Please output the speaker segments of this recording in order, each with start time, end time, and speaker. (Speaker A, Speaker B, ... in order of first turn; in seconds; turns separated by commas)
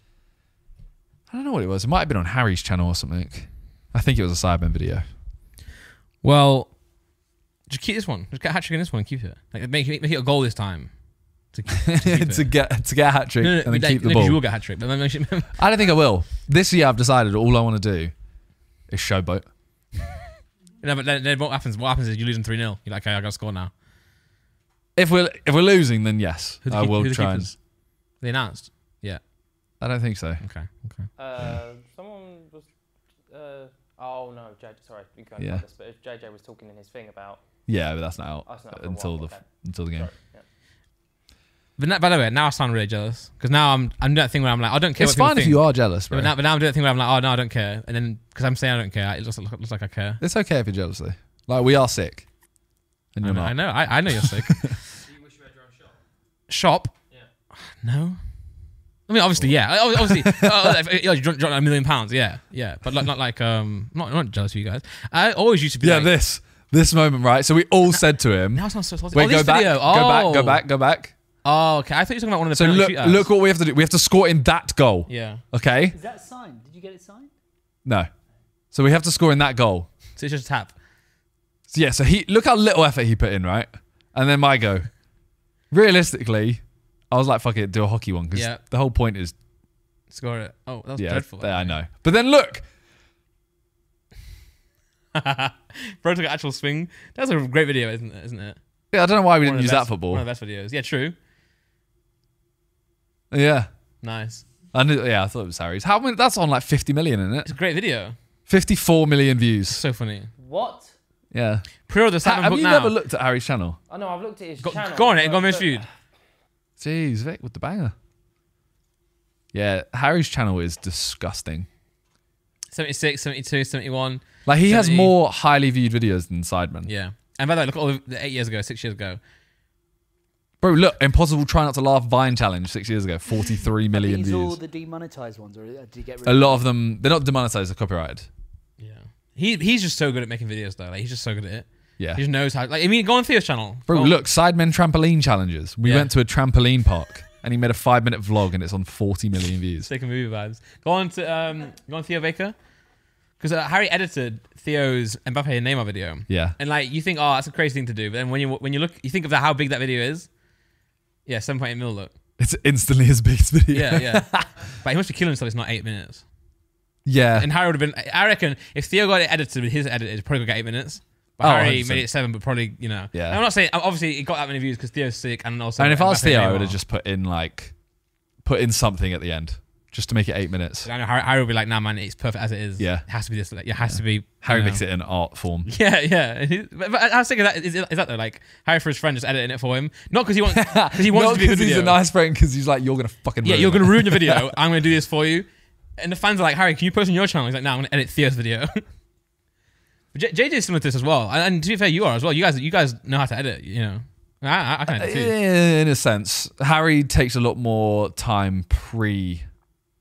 Speaker A: 1.3-5.0, Speaker B: 6.2-15.6, Speaker A: 12.0-14.6, Speaker A: 15.6-19.5, Speaker B: 20.8-23.7, Speaker A: 24.9-27.5, Speaker B: 26.6-29.2, Speaker A: 29.8-30.5, Speaker B: 30.4-31.1, Speaker C: 31.1-37.9, Speaker A: 35.4-35.6, Speaker A: 37.6-40.1, Speaker C: 38.4-40.5, Speaker B: 41.8-50.2, Speaker A: 45.0-46.3, Speaker A: 50.2-52.5, Speaker A: 53.1-54.7, Speaker B: 53.2-54.8, Speaker C: 55.0-55.9, Speaker B: 56.5-66.1, Speaker A: 59.4-60.6, Speaker A: 65.8-71.1, Speaker B: 67.9-70.8, Speaker B: 71.4-73.3, Speaker A: 72.5-75.9, Speaker B: 75.1-75.4, Speaker D: 75.9-77.3, Speaker A: 78.7-79.9, Speaker B: 80.2-80.8, Speaker A: 81.7-89.4, Speaker B: 88.3-88.6, Speaker B: 90.1-91.8, Speaker A: 91.0-92.7, Speaker B: 95.1-101.1, Speaker A: 98.9-100.2, Speaker A: 103.3-104.0, Speaker B: 104.0-104.5, Speaker A: 104.7-107.7, Speaker B: 107.4-108.2, Speaker A: 108.5-109.8, Speaker B: 109.7-110.3, Speaker C: 110.4-110.9, Speaker A: 111.3-113.8, Speaker B: 111.9-113.0, Speaker C: 113.9-115.9, Speaker B: 114.6-115.8, Speaker A: 116.8-117.9, Speaker A: 119.5-121.7, Speaker B: 122.7-125.1, Speaker A: 124.4-126.9, Speaker B: 126.8-129.2, Speaker A: 130.6-134.6, Speaker D: 133.8-136.7, Speaker A: 136.2-138.3, Speaker B: 138.8-144.2, Speaker A: 142.0-142.2, Speaker A: 143.9-149.9, Speaker B: 145.8-146.1, Speaker B: 149.9-152.8, Speaker B: 153.3-162.1, Speaker A: 156.3-156.6, Speaker A: 162.4-164.5, Speaker B: 163.7-166.3, Speaker A: 167.0-167.5, Speaker B: 167.3-176.8, Speaker A: 171.4-173.4, Speaker A: 175.8-180.9, Speaker B: 180.8-192.0, Speaker A: 182.8-185.7, Speaker A: 190.5-194.5, Speaker B: 193.4-199.0, Speaker B: 200.1-205.3, Speaker A: 204.9-209.5